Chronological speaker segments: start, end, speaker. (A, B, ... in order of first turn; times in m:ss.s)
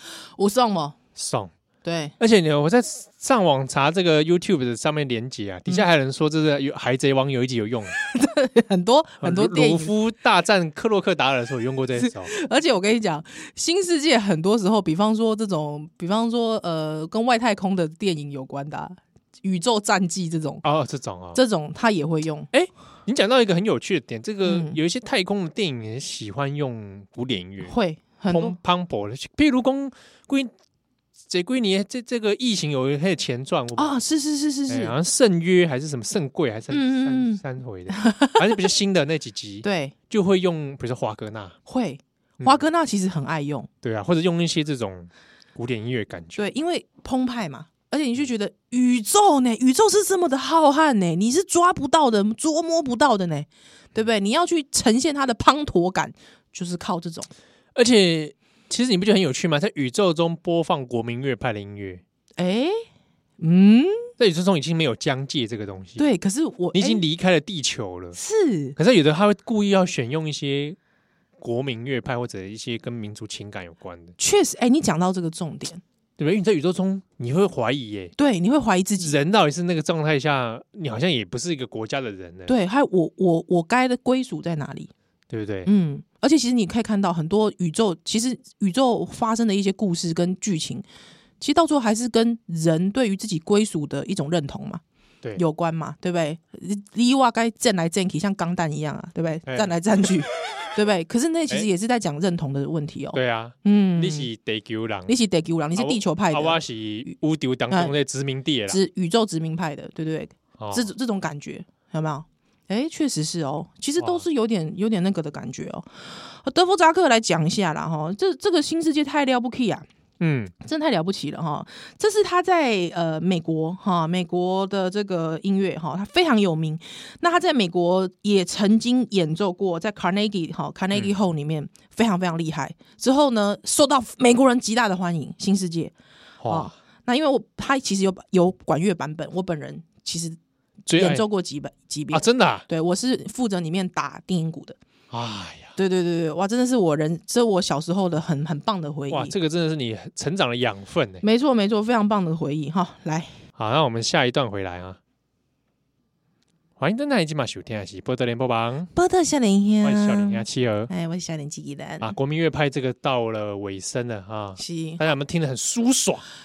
0:00.4-0:01.0 A
0:01.2-0:01.5 B
0:01.8-0:02.1 A
0:02.2-0:08.0 B
0:08.0-0:09.9 A
0:09.2-0:12.3 B
0:12.0-0:20.6 A
0:20.6-0:21.4 B
0:21.4-0:22.5 A
0:22.5-0:27.7 B
0:24.4-0:24.8 A
0:27.7-0:28.6 A
0:28.3-0:30.5 B
0:31.3-0:34.0 B
0:33.8-0:34.9 A
0:34.7-0:41.6 B
0:36.7-0:38.6 A
0:39.6-0:39.9 A
0:41.6-0:43.7 A
0:43.8-0:46.4 B
0:46.4-0:57.3 A
0:57.7-1:02.0 B
1:02.4-1:02.8 A
1:03.4-1:04.1 A
1:04.2-1:06.0 B
1:06.0-1:07.0 A
1:06.7-1:08.2 B
1:08.2-1:08.7 A
1:08.8-1:10.8 B
1:11.4-1:14.2 B
1:14.2-1:15.8 A
1:16.2-1:18.1 B
1:18.2-1:19.1 A
1:19.0-1:22.5 B
1:22.5-1:24.9 A
1:25.3-1:25.7 B
1:25.6-1:30.8 A
1:31.4-1:34.8 A
1:35.4-1:44.3 A
1:39.5-1:39.7 B
1:43.1-1:45.1 B
1:45.1-1:46.6 A
1:45.8-1:48.8 B
1:48.7-1:59.9 A
1:50.6-1:50.9 B
1:54.0-1:54.2 B
2:00.2-2:00.5 B
2:00.6-2:15.9 A
2:16.4-2:16.7 B
2:16.5-2:20.4 A
2:20.9-2:21.2 B
2:21.0-2:24.8 A
2:22.1-2:22.6 B
2:25.1-2:25.8 B
2:25.8-2:29.3 A
2:29.1-2:31.2 B
2:31.2-2:33.4 A
2:33.6-2:35.0 B
2:36.8-2:38.9 B
2:38.9-2:42.1 A
2:39.8-2:40.9 B
2:42.0-2:46.2 B
2:44.6-2:45.0 A